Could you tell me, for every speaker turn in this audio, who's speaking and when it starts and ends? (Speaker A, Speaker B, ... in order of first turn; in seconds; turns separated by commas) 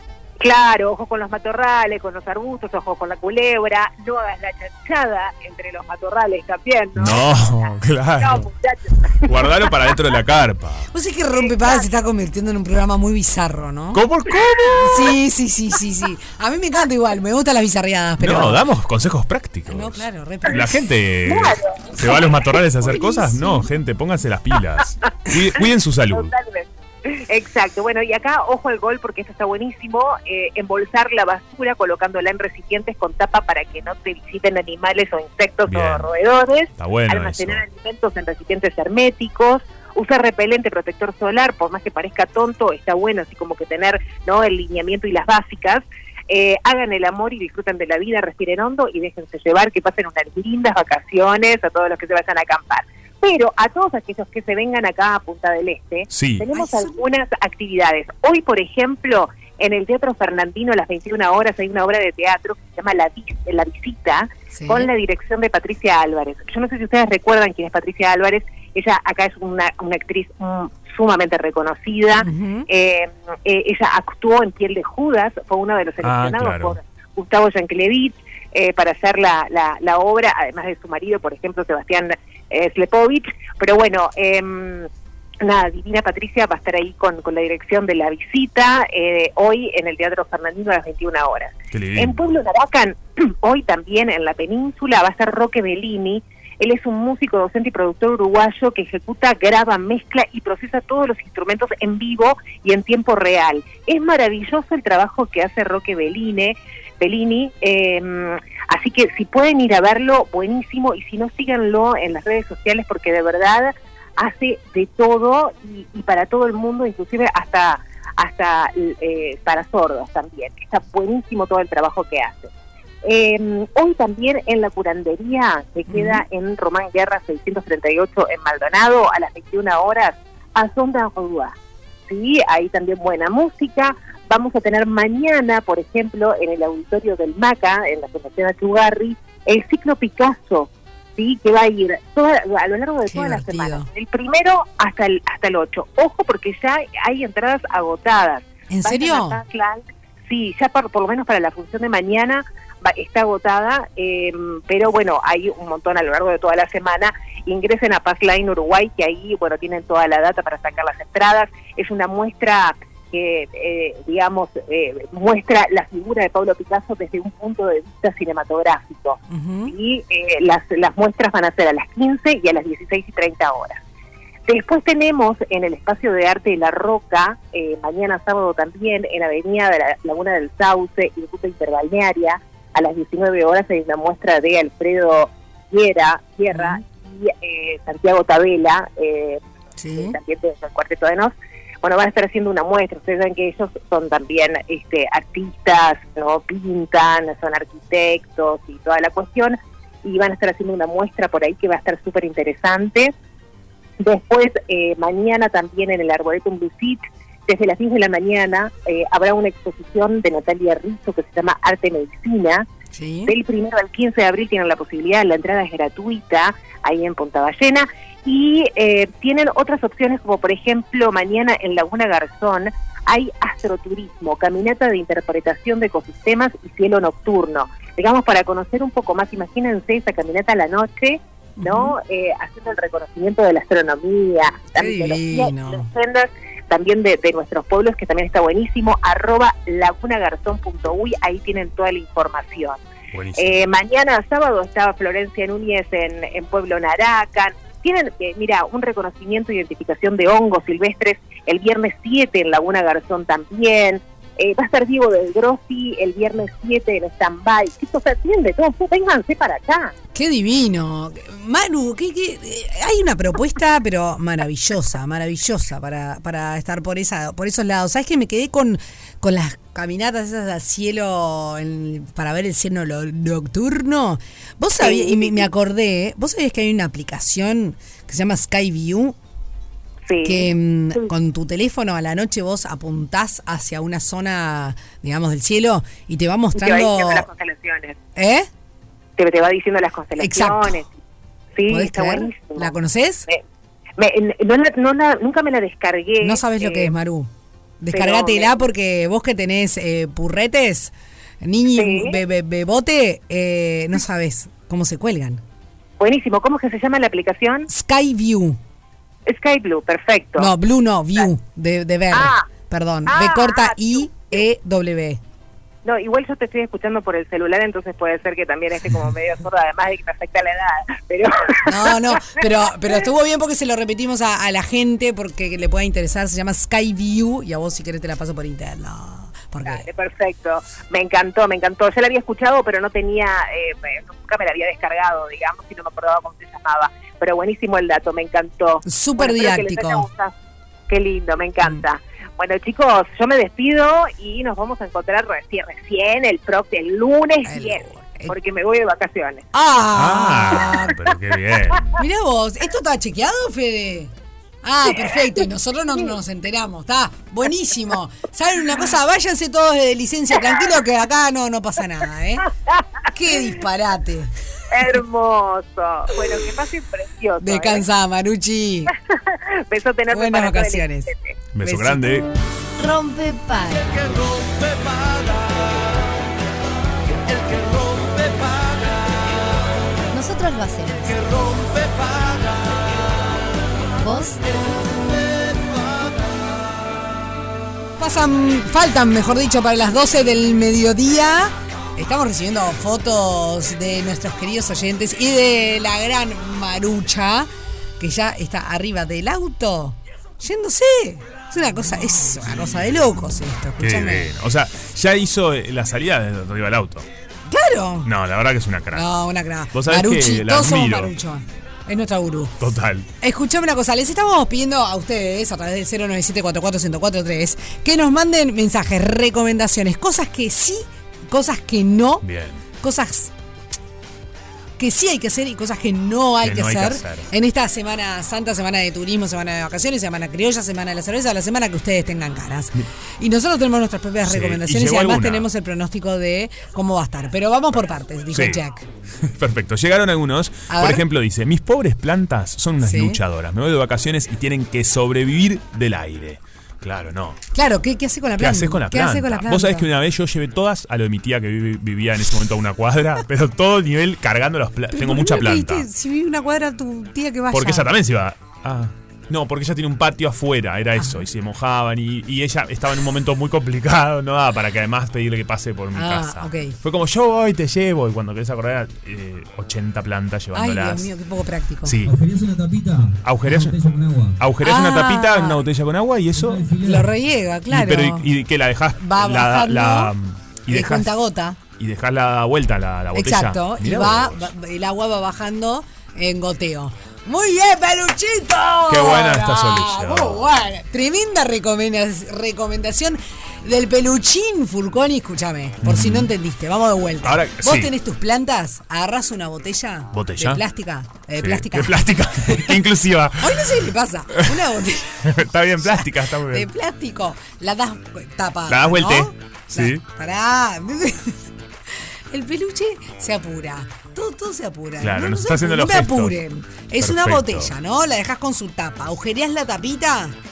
Speaker A: 0.4-10.0, Speaker B: 6.9-8.5, Speaker B: 9.2-10.9, Speaker C: 10.9-14.0, Speaker A: 11.4-11.9, Speaker B: 13.9-15.1, Speaker C: 14.8-18.6, Speaker B: 18.2-26.3, Speaker C: 19.7-20.8, Speaker A: 21.2-22.4, Speaker C: 23.1-23.6, Speaker A: 26.1-84.9, Speaker B: 35.7-36.1, Speaker B: 36.8-37.6, Speaker B: 56.1-56.5, Speaker C: 56.5-57.0, Speaker C: 64.5-64.9, Speaker C: 72.2-72.7, Speaker B: 76.0-76.8, Speaker A: 85.4-122.5, Speaker B: 91.7-92.3, Speaker A: 123.0-131.5, Speaker C: 125.9-126.2, Speaker A: 132.1-173.8, Speaker C: 143.1-143.9, Speaker C: 148.7-149.4, Speaker C: 169.3-169.7, Speaker A: 174.5-189.4, Speaker C: 186.5-186.8, Speaker C: 189.8-190.2, Speaker A: 189.9-203.1, Speaker A: 204.0-212.7, Speaker C: 212.9-213.3, Speaker A: 213.3-242.8, Speaker C: 231.6-231.9, Speaker C: 234.8-235.9, Speaker B: 243.1-243.6, Speaker A: 243.4-259.9, Speaker C: 260.1-279.1, Speaker A: 274.8-275.4, Speaker A: 280.1-281.1, Speaker C: 280.2-287.3, Speaker A: 286.5-288.0, Speaker C: 288.1-288.5, Speaker A: 289.2-290.9, Speaker C: 290.2-290.8, Speaker A: 291.6-292.7, Speaker C: 291.7-293.3, Speaker A: 294.0-296.9, Speaker C: 296.2-297.3, Speaker C: 297.8-305.4, Speaker A: 297.9-298.6, Speaker A: 301.7-302.2, Speaker A: 306.0-307.7, Speaker C: 307.7-308.6, Speaker A: 309.2-310.5, Speaker C: 310.4-315.2, Speaker A: 312.1-312.5, Speaker A: 313.1-314.4, Speaker A: 315.8-322.9, Speaker C: 321.6-329.9, Speaker A: 329.6-340.3, Speaker C: 338.8-340.1, Speaker A: 340.9-349.4, Speaker C: 347.4-348.3, Speaker C: 349.5-351.0, Speaker B: 349.9-351.9, Speaker C: 351.9-362.5, Speaker C: 363.1-364.3, Speaker A: 364.7-367.8, Speaker C: 367.4-368.9, Speaker A: 369.1-371.4, Speaker C: 370.1-371.1, Speaker B: 371.5-372.3, Speaker C: 371.6-372.2, Speaker D: 372.8-374.4, Speaker D: 380.1-381.9, Speaker D: 384.0-384.4, Speaker C: 388.0-397.5, Speaker C: 398.0-404.3, Speaker B: 403.8-407.1, Speaker C: 407.5-408.1, Speaker B: 408.0-409.1, Speaker C: 408.9-412.6, Speaker B: 409.7-411.1, Speaker B: 412.6-413.1, Speaker C: 413.2-422.2, Speaker B: 422.2-422.6, Speaker C: 422.8-423.3, Speaker C: 424.8-438.8, Speaker B: 426.4-427.3, Speaker B: 434.2-435.5, Speaker B: 438.3-438.6, Speaker B: 439.2-447.4, Speaker C: 440.7-441.0, Speaker C: 442.8-443.2, Speaker C: 447.5-449.9, Speaker B: 448.4-455.9, Speaker C: 454.9-457.9, Speaker B: 457.5-471.1, Speaker C: 461.0-461.2, Speaker C: 465.9-466.8, Speaker C: 470.5-472.0, Speaker B: 471.8-472.2, Speaker E: 472.0-474.4, Speaker B: 473.2-473.8, Speaker B: 474.4-476.7, Speaker C: 474.6-475.6, Speaker E: 476.3-477.1, Speaker C: 476.8-478.3, Speaker B: 477.7-481.2, Speaker C: 478.9-480.1, Speaker C: 480.7-481.6, Speaker B: 481.8-484.5, Speaker C: 483.1-502.8, Speaker B: 488.9-490.5, Speaker B: 495.8-496.3, Speaker B: 497.2-497.9, Speaker B: 500.1-500.6, Speaker B: 501.4-503.8, Speaker C: 503.4-511.5, Speaker B: 504.3-504.6, Speaker B: 505.2-506.7, Speaker B: 508.7-510.0, Speaker C: 512.3-520.3, Speaker B: 515.0-516.4, Speaker B: 517.0-517.7